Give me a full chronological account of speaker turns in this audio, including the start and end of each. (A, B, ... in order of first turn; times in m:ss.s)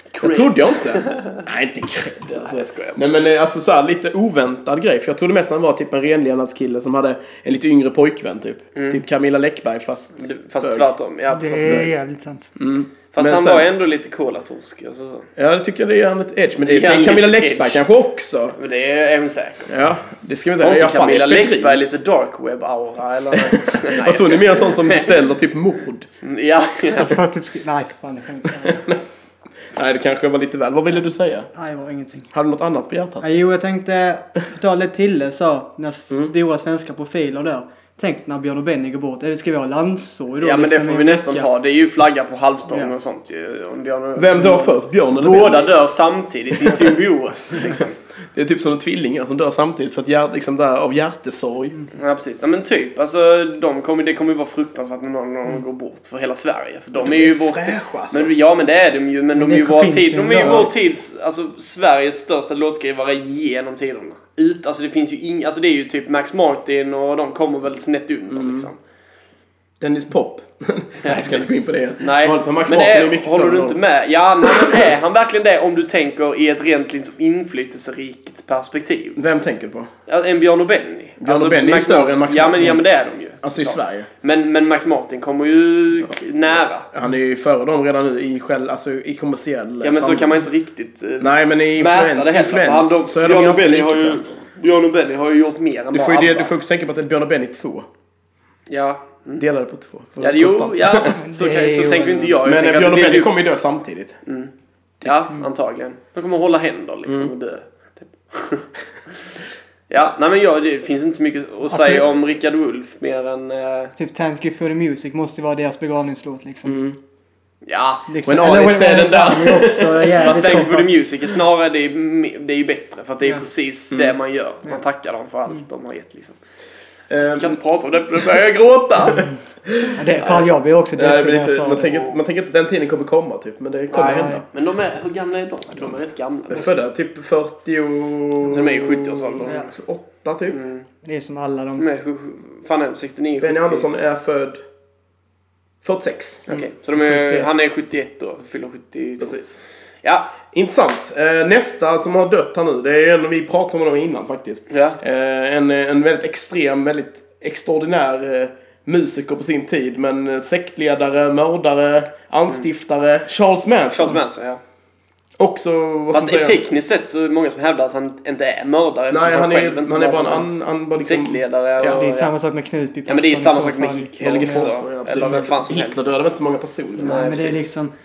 0:00.1-0:01.4 A
0:00.2-0:10.9 B
0:02.3-0:03.0 A
0:08.8-0:09.0 A
0:10.2-0:11.9 A
0:11.3-0:12.5 C
0:12.6-0:13.7 B
0:13.1-0:15.3 A
0:15.4-0:18.6 B
0:16.6-0:17.9 A
0:18.6-0:19.8 A
0:19.7-0:21.8 B
0:20.6-0:25.2 A
0:23.3-0:26.1 B
0:26.2-0:27.2 A
0:27.0-0:28.9 C
0:28.6-0:29.0 B
0:29.8-0:31.5 B
0:31.6-0:32.3 C
0:32.3-0:33.3 B
0:33.2-0:41.5 C
0:40.4-0:48.0 A
0:44.2-0:45.7 B
0:46.5-0:47.0 B
0:47.6-0:47.8 B
0:48.4-0:51.8 B
0:51.9-1:08.8 A
0:56.9-0:58.3 B
0:59.4-1:00.7 C
1:00.4-1:00.7 B
1:08.3-1:08.7 B
1:09.8-1:13.8 B
1:11.0-1:19.2 A
1:14.4-1:14.9 B
1:19.2-1:19.9 B
1:20.1-1:26.9 A
1:21.2-1:22.8 B
1:23.4-1:24.1 B
1:26.9-1:30.4 B
1:29.8-1:36.5 A
1:31.2-1:34.2 B
1:35.9-1:37.9 B
1:38.7-1:39.4 A
1:39.4-1:41.2 B
1:40.2-1:43.4 A
1:41.1-1:42.4 C
1:42.4-1:44.2 B
1:44.3-1:44.5 A
1:45.0-1:48.7 A
1:47.1-1:47.3 B
1:49.9-1:53.9 A
1:51.7-1:52.1 C
1:54.0-1:56.8 C
1:56.7-1:57.0 B
1:57.6-1:58.1 A
1:58.1-2:00.9 C
1:58.3-2:00.4 B
2:00.2-2:06.4 A
2:03.9-2:04.2 B
2:07.1-2:07.6 B
2:07.3-2:09.3 A
2:08.1-2:10.0 B
2:10.0-2:11.9 C
2:11.0-2:14.4 B
2:11.8-2:12.2 A
2:13.9-2:16.8 A
2:14.0-2:14.4 C
2:16.5-2:20.6 B
2:18.4-2:19.6 A
2:20.5-2:20.9 A
2:21.0-2:21.8 C
2:21.8-2:23.9 A
2:23.4-2:24.6 B
2:25.8-2:26.6 B
2:26.5-2:30.3 A
2:27.0-2:27.5 C
2:30.5-2:44.2 B
2:34.7-2:35.0 A
2:43.9-2:44.6 A
2:45.4-2:46.6 B
2:46.1-2:52.3 A
2:49.1-2:52.0 B
2:52.0-2:54.7 C
2:53.1-2:56.3 A
2:54.2-2:57.3 B
2:57.0-2:57.9 C
2:57.0-2:57.7 A